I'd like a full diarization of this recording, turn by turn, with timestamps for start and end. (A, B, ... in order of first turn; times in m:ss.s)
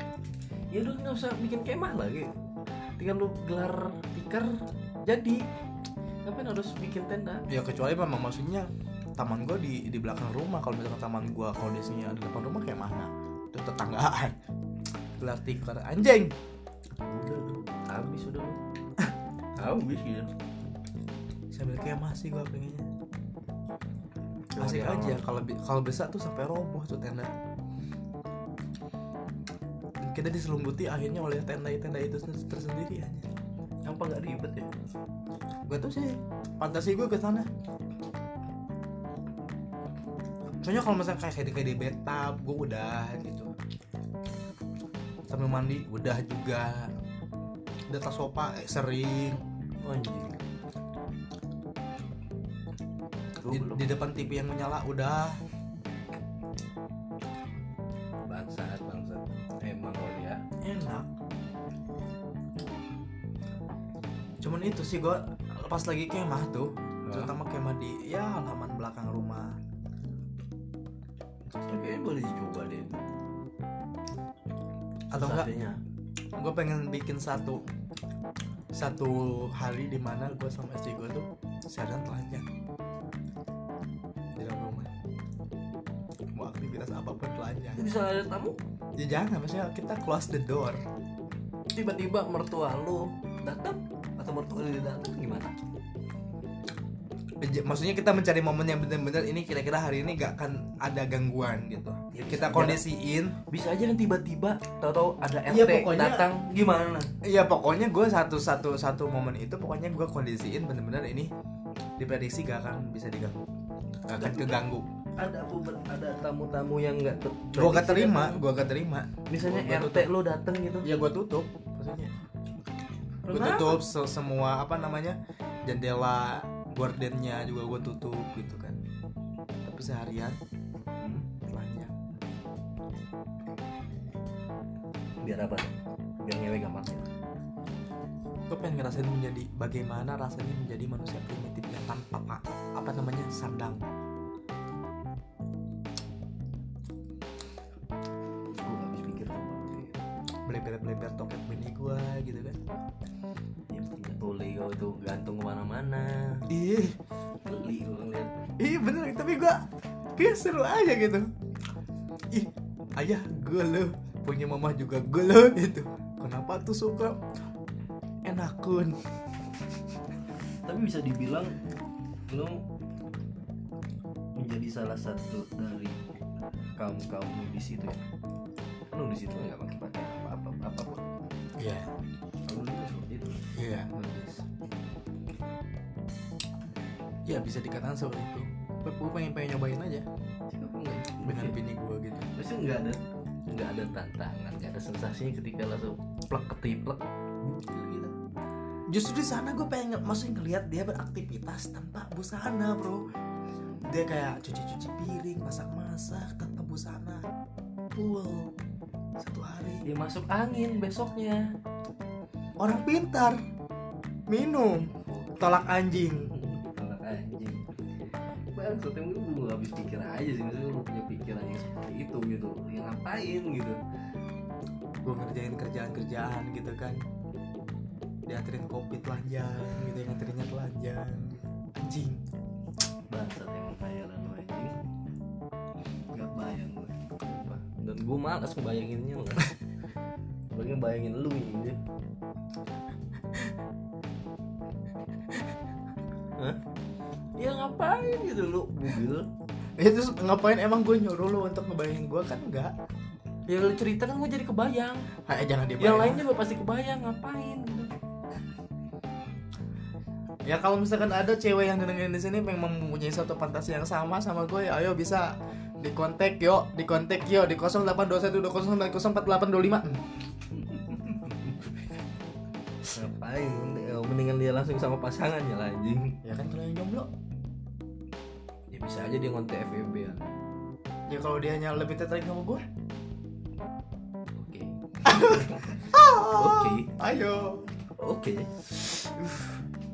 0:00.7-0:02.3 A
0:03.0-0:05.4 A
0:06.2-0:07.4 A
0:07.5-0:14.4 B
0:15.2-0:16.3 B
0:17.0-0:18.6 A
0:19.6-0:20.3 A
0:21.5-0:22.9 B
0:24.6-0:25.2 A
0:24.6-0:27.3 B
0:30.0-0:33.3 B
0:33.9-0:34.7 A
0:35.7-0:37.5 B
0:40.6-0:43.5 B
0:45.3-0:46.9 B
0:47.9-0:49.4 B
0:49.8-0:50.4 A
0:53.4-0:53.8 A
0:53.5-0:55.4 B
0:58.3-1:00.4 A
1:00.6-1:01.1 B
1:04.4-1:09.6 B
1:07.0-1:07.3 A
1:11.7-1:13.0 A
1:15.1-1:15.5 B
1:15.1-1:15.8 A
1:16.4-1:17.7 B
1:18.7-1:22.5 B
1:24.4-1:24.9 B
1:26.4-1:27.8 B
1:27.8-1:28.6 A
1:29.0-1:30.8 B
1:31.7-1:35.5 A
1:37.4-1:43.4 B
1:42.1-1:42.8 A
1:43.4-1:47.1 A
1:45.5-1:46.3 B
1:47.2-1:51.3 B
1:52.0-1:53.4 B
1:54.1-1:54.6 A
1:54.1-1:54.9 B
1:55.2-1:58.4 A
1:57.5-2:00.1 B
1:59.3-2:00.9 A
2:00.8-2:02.1 B
2:03.2-2:03.8 A
2:03.3-2:08.8 B
2:09.6-2:10.4 B
2:11.0-2:11.3 A
2:11.5-2:11.9 B
2:15.2-2:17.1 A
2:18.5-2:23.8 B
2:28.5-2:30.0 A
2:30.5-2:32.6 B
2:33.7-2:36.5 A
2:36.5-2:37.0 B
2:37.4-2:38.5 A
2:38.6-2:39.6 B
2:40.2-2:41.3 B
2:42.3-2:47.2 B
2:48.2-2:49.0 B
2:50.7-2:51.6 A
2:52.3-2:52.6 A
2:54.4-2:56.0 A
2:56.8-2:58.0 A
2:58.9-3:01.1 A
3:01.6-3:01.9 B
3:02.5-3:03.4 A
3:03.6-3:04.3 B
3:04.0-3:04.4 A
3:07.3-3:10.1 B
3:10.5-3:11.6 A
3:11.2-3:12.3 B
3:12.3-3:18.1 A
3:18.9-3:23.0 B
3:23.8-3:27.2 B
3:28.0-3:28.5 B
3:29.2-3:29.9 B
3:29.8-3:31.5 A
3:32.6-3:33.4 B
3:34.3-3:36.3 B
3:34.9-3:37.6 A
3:38.5-3:43.8 A
3:45.0-3:47.0 B
3:48.3-3:52.2 B
3:53.1-3:54.8 A
3:56.1-3:59.5 A
4:00.5-4:01.8 A
4:07.4-4:09.3 A
4:09.8-4:12.7 B
4:13.5-4:15.1 A
4:15.2-4:16.2 B
4:15.8-4:17.9 A
4:20.5-4:30.0 B
4:30.5-4:31.8 A
4:32.9-4:36.2 A
4:36.2-4:37.1 B
4:38.7-4:40.3 A
4:41.1-4:42.6 B
4:44.4-4:46.9 A
4:45.0-4:47.7 B
4:48.0-4:48.7 A
4:48.8-4:49.6 B